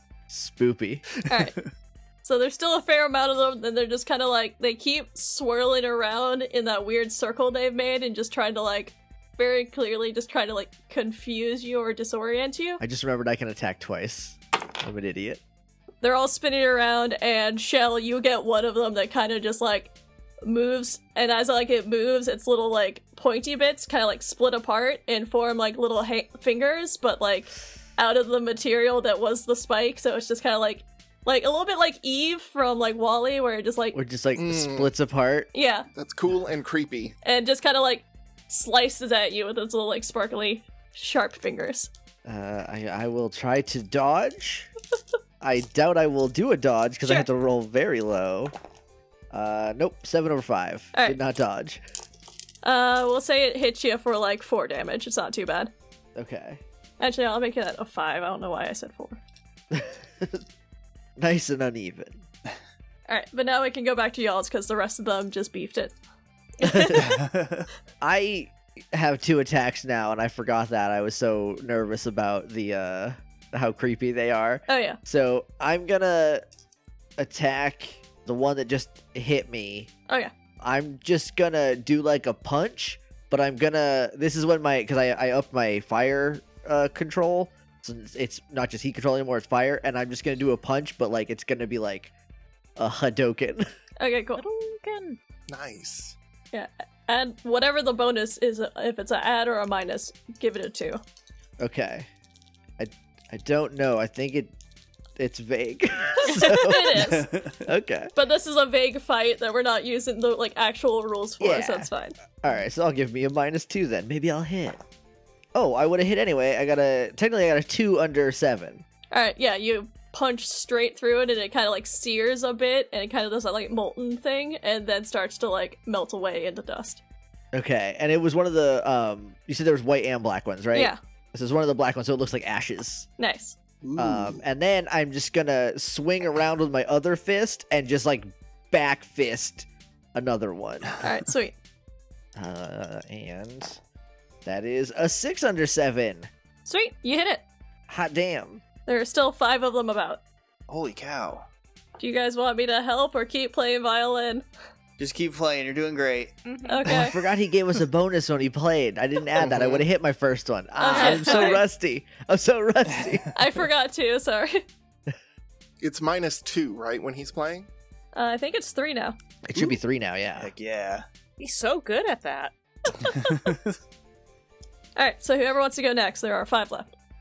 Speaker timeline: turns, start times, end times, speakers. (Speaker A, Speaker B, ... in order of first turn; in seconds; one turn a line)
Speaker A: 0.3-1.1
Speaker B: 1.3-1.6
Speaker B: 2.2-12.8
Speaker A: 12.8-15.4
Speaker B: 16.0-19.9
Speaker B: 20.4-34.0
Speaker A: 33.9-35.5
Speaker C: 34.4-34.9
Speaker B: 35.5-35.9
Speaker C: 36.0-37.1
Speaker B: 37.2-41.9
Speaker A: 42.2-44.7
Speaker A: 45.4-48.5
Speaker A: 49.3-51.8
Speaker B: 52.6-55.7
Speaker A: 56.1-56.6
Speaker B: 57.0-59.2
Speaker A: 59.7-60.4
Speaker A: 61.2-62.2
Speaker B: 63.1-65.9
Speaker A: 66.6-67.1
Speaker B: 66.7-67.0
Speaker D: 67.0-67.7
Speaker A: 68.0-76.5
Speaker B: 74.7-75.0
Speaker A: 77.2-79.9
Speaker A: 80.6-92.1
Speaker A: 92.8-93.7
Speaker B: 94.0-94.4
Speaker E: 94.4-95.2
Speaker C: 95.5-96.2
Speaker B: 96.5-101.0
Speaker A: 101.6-102.1
Speaker A: 102.8-104.5
Speaker A: 105.2-108.1
Speaker B: 106.3-107.3
Speaker D: 107.2-107.6
Speaker B: 108.2-112.2
Speaker A: 111.4-111.9
Speaker A: 112.4-114.8
Speaker A: 115.5-118.8
Speaker B: 119.1-127.0
Speaker A: 127.5-133.1
Speaker B: 130.7-131.0
Speaker B: 133.2-133.6
Speaker C: 133.8-134.4
Speaker A: 134.0-140.9
Speaker B: 141.0-141.5
Speaker A: 142.4-143.8
Speaker A: 144.4-146.3
Speaker B: 146.7-147.4
Speaker A: 147.9-148.6
Speaker B: 148.9-150.2
Speaker D: 150.7-151.5
Speaker B: 152.0-154.4
Speaker D: 155.0-156.3
Speaker E: 156.4-156.8
Speaker B: 156.7-157.2
Speaker A: 156.9-163.3
Speaker C: 159.4-159.8
Speaker B: 160.8-161.6
Speaker E: 160.9-161.4
Speaker B: 163.3-164.6
Speaker C: 165.8-167.7
Speaker B: 168.1-169.2
Speaker A: 169.5-170.5
Speaker D: 170.4-171.1
Speaker E: 171.4-172.5
Speaker B: 172.9-173.4
Speaker D: 173.2-173.8
Speaker B: 175.0-176.9